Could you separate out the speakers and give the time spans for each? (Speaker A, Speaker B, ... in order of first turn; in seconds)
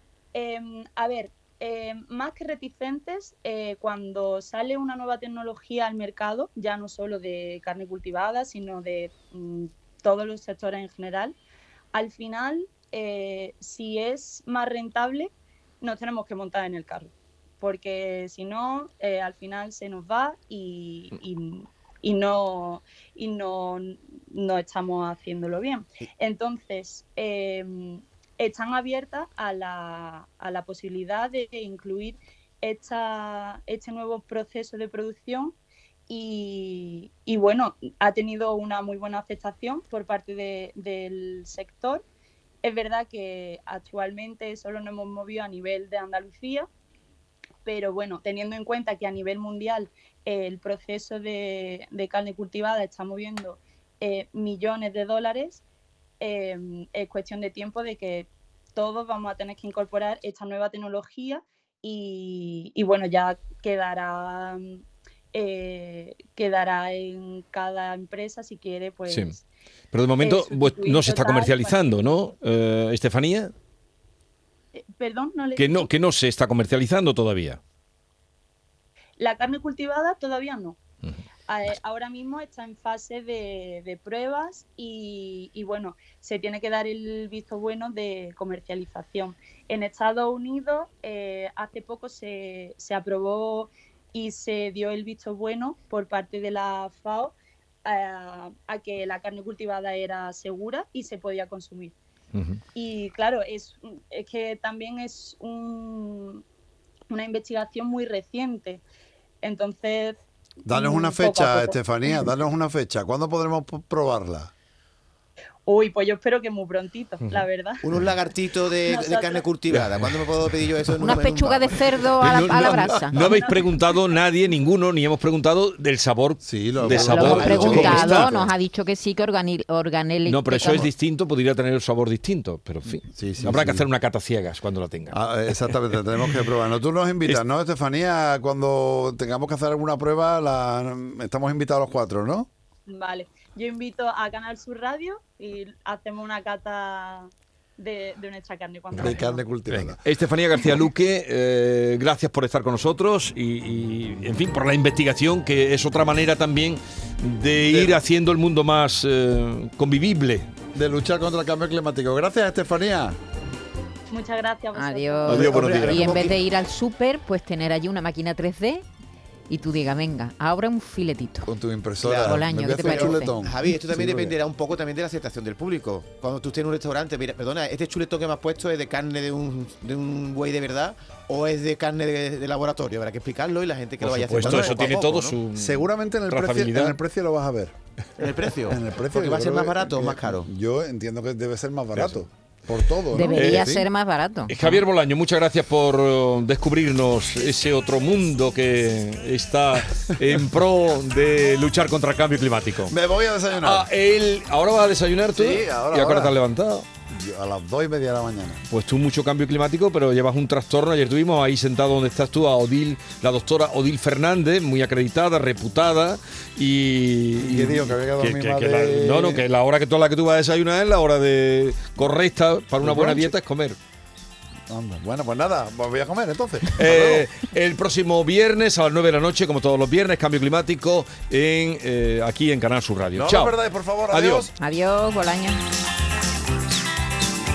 Speaker A: 0.3-11.4, 11.9-35.6, 36.1-42.0, 42.6-46.7, 47.6-55.6, 56.2-64.8, 65.3-69.4, 70.2-71.8, 74.7-75.9, 79.2-80.8, 81.5-102.0, 102.8-106.4, 107.1-108.8, 109.4-110.2, 110.7-112.3, 115.7-117.8, 118.8-119.5, 123.2-124.0, 142.9-149.4, 164.1-165.4
Speaker B: 69.1-69.3, 69.9-73.5, 75.6-77.6, 102.3-102.6, 119.7-120.2, 122.2-128.4, 130.2-136.0, 148.9-160.5, 184.0-187.0, 191.9-192.2, 193.3-193.8, 194.5-202.9, 203.6-206.9, 208.7-223.8, 226.7-233.6, 234.1-234.5
Speaker C: 110.7-114.5, 126.4-128.5, 130.6-130.9, 133.1-133.9, 135.1-142.5, 149.0-150.0, 157.7-158.0, 160.7-163.2, 165.2-166.4, 171.5-174.4, 184.3-184.9, 185.6-187.7, 188.7-193.9, 202.9-203.9, 205.3-206.4, 207.1-208.6, 217.4-219.4, 222.8-223.3, 224.7-227.3, 233.2-234.5
Speaker D: 117.8-122.9, 165.3-166.4, 172.0-185.4, 188.2-190.5
Speaker E: 121.0-123.2, 127.1-130.9, 164.8-168.8, 169.5-171.5, 172.3-173.4, 193.1-194.8, 234.6-235.6